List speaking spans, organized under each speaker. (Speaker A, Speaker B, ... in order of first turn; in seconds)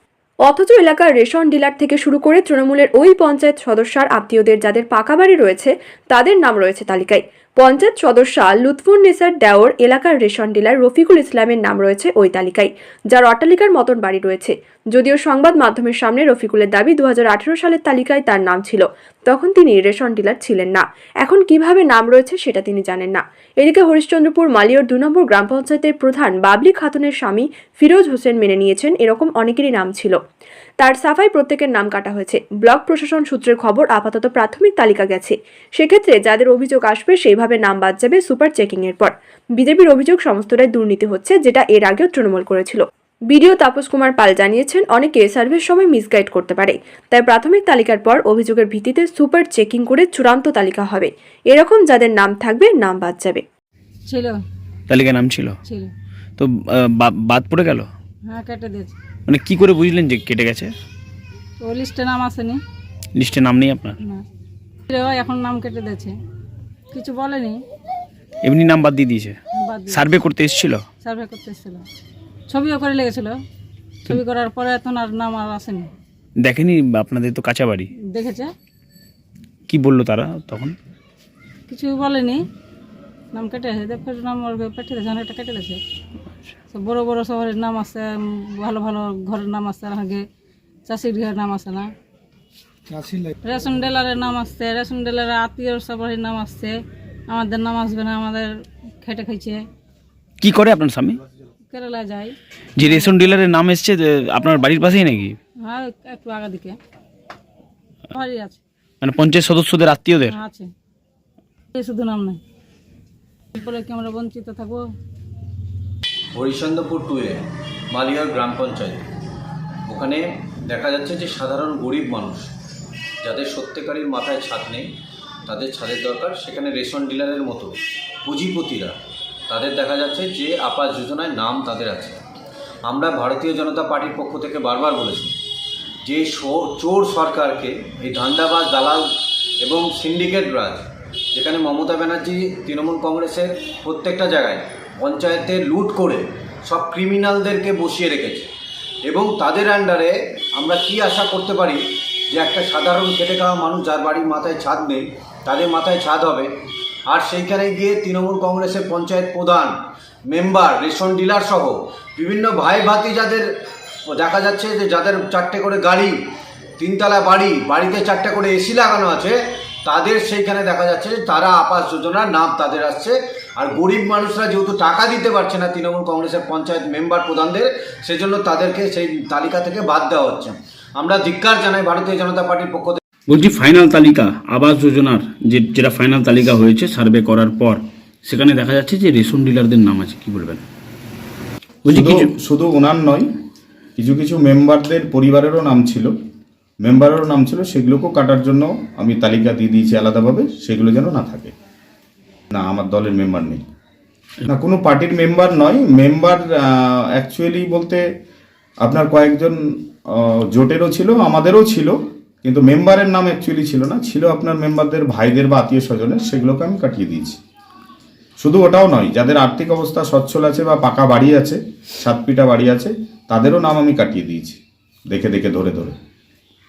Speaker A: 0.5-30.2, 30.8-53.4
Speaker B: 54.1-54.4, 55.7-55.9, 58.3-59.0, 61.6-62.6, 64.9-66.2, 66.9-67.6, 69.6-70.2, 71.0-71.8, 72.5-73.4, 74.1-75.9, 78.1-78.5, 81.7-82.4, 83.3-85.8, 86.7-90.2, 90.9-91.9, 93.4-96.8, 97.3-99.6, 101.7-103.1, 105.7-106.8, 108.1-108.6, 110.3-110.7, 111.7-112.4, 113.5-114.8
Speaker C: 54.9-55.6, 56.4-57.9, 59.3-60.7, 63.1-64.0, 68.4-69.4, 69.9-70.8, 76.4-77.9, 79.7-80.8, 100.4-101.2, 102.8-105.4, 109.0-110.4, 183.3-190.6, 191.8-192.3
Speaker D: 116.3-119.1, 119.9-122.5, 123.2-124.9, 125.5-128.9, 129.5-132.2, 132.8-135.3, 136.0-139.1, 139.6-148.5, 149.0-156.5, 157.1-159.8, 160.3-163.5, 164.1-166.2, 166.8-183.0
Speaker E: 191.9-193.3, 194.0-196.2, 196.8-201.5, 202.5-203.6, 204.5-208.1, 208.8-217.4, 218.4-225.9